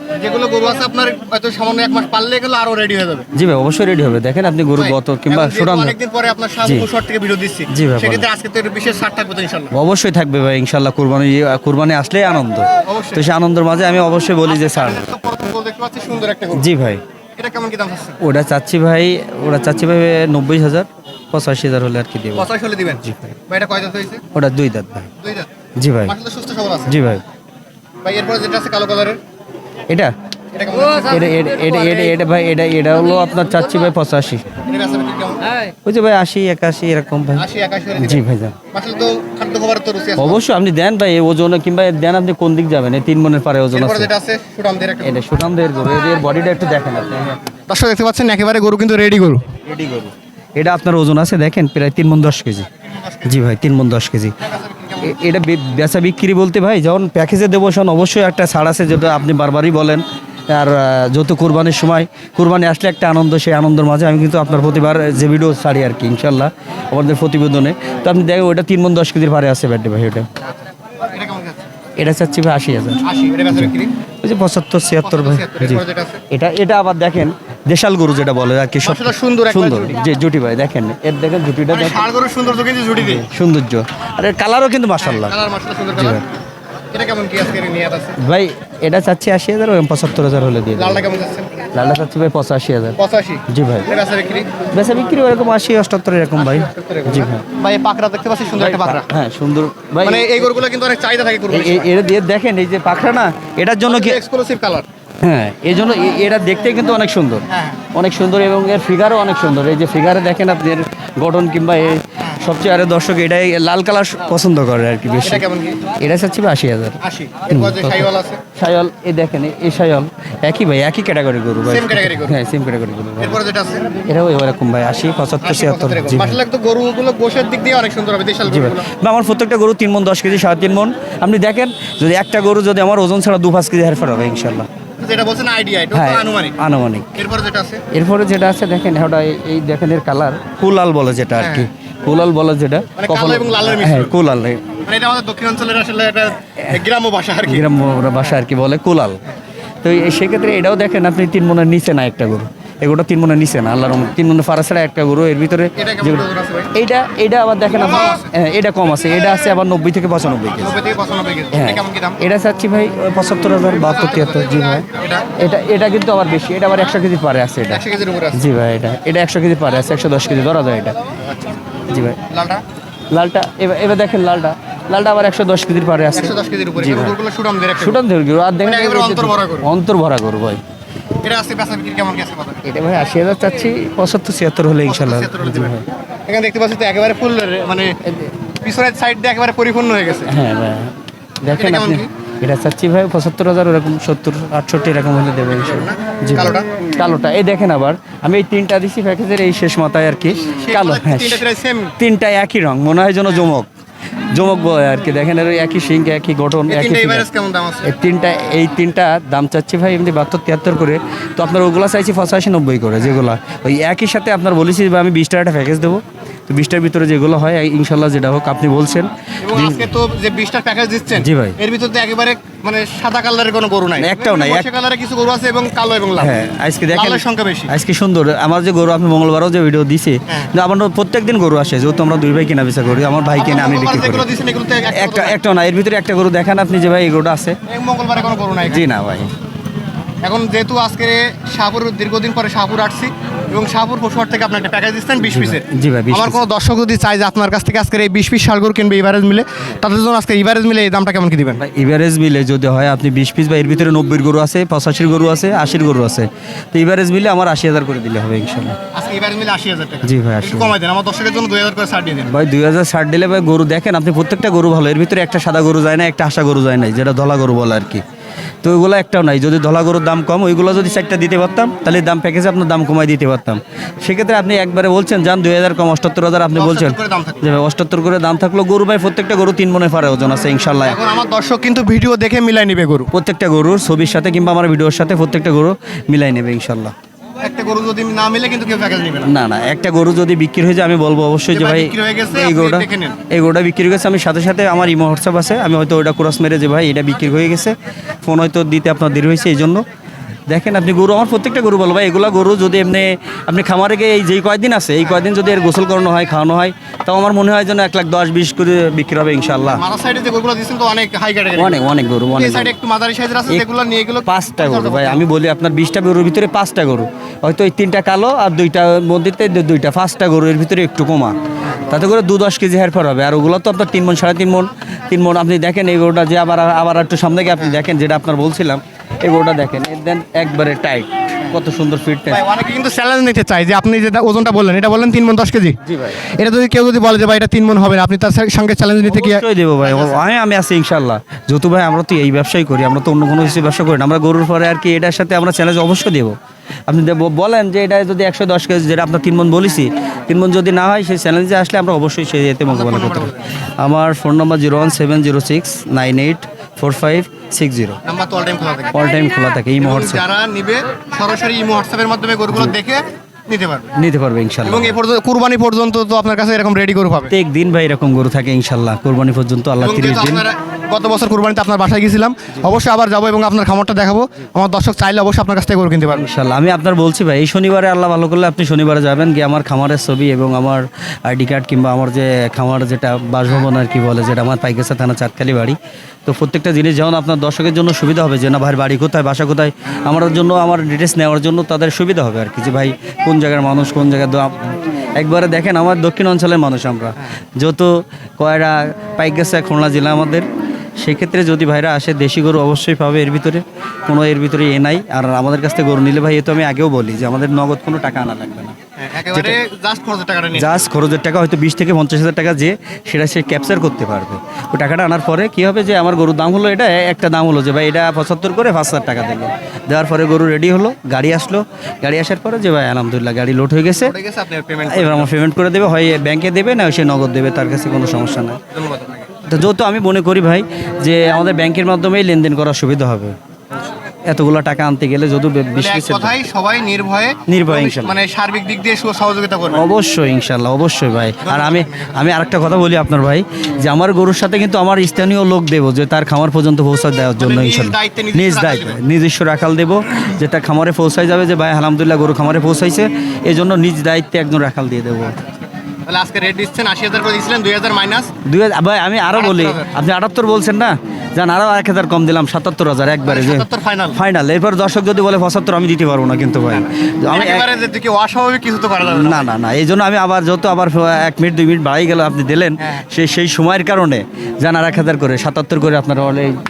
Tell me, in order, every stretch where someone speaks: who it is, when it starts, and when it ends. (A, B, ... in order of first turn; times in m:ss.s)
0:00.2-0:03.3 A
0:03.4-0:06.0 B
0:04.8-0:09.7 A
0:07.7-0:08.3 B
0:09.7-0:15.0 B
0:12.8-0:13.3 A
0:14.5-0:16.7 A
0:16.6-0:17.0 B
0:17.4-0:18.2 A
0:18.2-0:22.5 B
0:22.3-0:24.2 A
0:23.0-0:23.3 B
0:24.4-0:25.1 B
0:25.2-0:25.5 A
0:25.8-0:26.1 B
0:26.0-0:26.9 A
0:26.9-0:27.2 B
0:28.0-0:29.2 A
0:30.6-0:32.2 A
0:31.0-0:34.5 B
0:34.6-0:35.6 A
0:35.8-0:37.5 B
0:37.4-0:40.4 A
0:38.0-0:38.6 B
0:40.2-0:44.1 B
0:43.7-0:45.2 A
0:45.0-0:47.4 B
0:47.7-0:49.4 A
0:49.7-0:52.7 B
0:52.9-0:53.3 A
0:53.2-0:54.3 B
0:54.4-0:55.2 A
0:55.0-1:10.3 B
1:11.1-1:11.7 A
1:12.0-1:13.0 B
1:13.0-1:13.9 A
1:14.2-1:22.0 B
1:15.0-1:16.2 A
1:18.8-1:20.0 A
1:21.7-1:23.2 A
1:23.0-1:25.3 B
1:25.0-1:26.3 A
1:25.9-1:26.2 B
1:26.9-1:28.2 A
1:28.2-1:31.0 B
1:30.8-1:31.5 A
1:31.7-1:33.0 B
1:33.0-1:34.5 A
1:33.5-1:33.9 B
1:34.7-1:37.4 B
1:36.4-1:39.1 A
1:38.6-1:40.5 B
1:40.0-1:41.9 A
1:41.5-1:44.2 B
1:43.9-1:44.9 A
1:45.2-1:55.4 B
1:47.5-1:47.8 A
1:55.2-1:55.8 A
1:56.0-1:57.0 B
1:57.0-1:58.4 A
1:57.5-2:03.4 B
2:01.7-2:02.4 A
2:03.2-2:04.0 A
2:04.0-2:06.4 B
2:05.4-2:08.9 A
2:08.5-2:14.7 B
2:15.0-2:16.6 A
2:15.9-2:17.1 B
2:17.1-2:17.8 A
2:17.9-2:24.6 B
2:21.4-2:21.7 A
2:23.0-2:24.1 A
2:24.8-2:27.7 A
2:27.5-2:29.2 B
2:29.8-2:40.8 B
2:35.8-2:36.7 A
2:37.7-2:38.3 A
2:40.6-2:42.2 A
2:41.5-2:44.8 B
2:43.9-2:45.3 A
2:45.4-2:47.8 B
2:47.7-2:48.4 A
2:48.4-2:51.0 B
2:51.9-2:52.2 B
2:52.3-2:52.6 A
2:53.1-2:57.2 B
2:56.1-2:58.0 A
2:57.8-3:00.6 B
2:58.6-2:59.7 A
3:01.2-3:02.6 A
3:02.6-3:05.8 B
3:04.9-3:08.0 A
3:08.1-3:08.3 B
3:08.6-3:10.3 A
3:10.3-3:21.4 B
3:11.5-3:12.1 A
3:15.5-3:16.7 A
3:20.6-3:22.0 A
3:22.0-3:23.7 B
3:24.3-3:27.3 B
3:26.7-3:27.9 A
3:27.8-3:39.9 B
3:39.4-3:46.4 A
3:41.2-3:41.6 B
3:44.0-3:44.7 B
3:46.2-3:54.3 B
3:46.9-3:47.7 A
3:50.3-3:50.5 A
3:53.4-3:55.4 A
3:54.9-3:57.6 B
3:57.7-3:58.8 A
3:58.7-3:59.3 B
4:00.2-4:11.6 A
4:05.3-4:06.4 B
4:11.6-4:18.8 B
4:18.9-4:22.3 A
4:20.0-4:20.8 B
4:22.3-4:28.0 B
4:28.6-4:41.0 B
4:36.6-4:37.5 A
4:40.8-4:43.1 A
4:43.1-4:46.9 B
4:47.4-4:49.3 A
4:49.3-4:59.8 B
4:51.5-4:53.2 A
5:00.5-5:09.8 B
5:09.8-5:11.8 A
5:11.6-5:12.7 B
5:12.3-5:15.2 A
5:14.3-5:21.4 B
5:21.9-5:32.4 B
5:32.3-5:40.2 A
5:35.9-5:36.2 B
5:39.0-5:46.4 B
5:46.9-5:58.0 B
5:52.7-5:53.5 A
5:58.0-5:59.0 A
5:58.9-6:00.2 B
5:59.8-6:03.9 A
6:04.0-6:05.0 B
6:04.6-6:07.3 A
6:07.3-6:10.5 B
6:09.8-6:16.3 A
6:16.1-6:40.5 B
6:41.0-6:48.8 B
6:49.0-6:50.8 A
6:49.3-6:49.6 B
6:50.6-7:04.1 B
7:04.0-7:05.3 A
7:04.9-7:08.6 B
7:08.7-7:09.3 A
7:09.5-7:13.4 B
7:14.3-7:16.4 B
7:15.7-7:19.8 A
7:17.5-7:18.2 B
7:19.7-7:35.4 B
7:21.4-7:22.2 A
7:27.4-7:29.0 A
7:36.1-7:38.3 A
7:38.4-7:47.7 B
7:39.4-7:39.9 A
7:43.2-7:44.2 A
7:46.7-7:49.5 A
7:49.1-7:56.6 B
7:52.8-7:53.1 A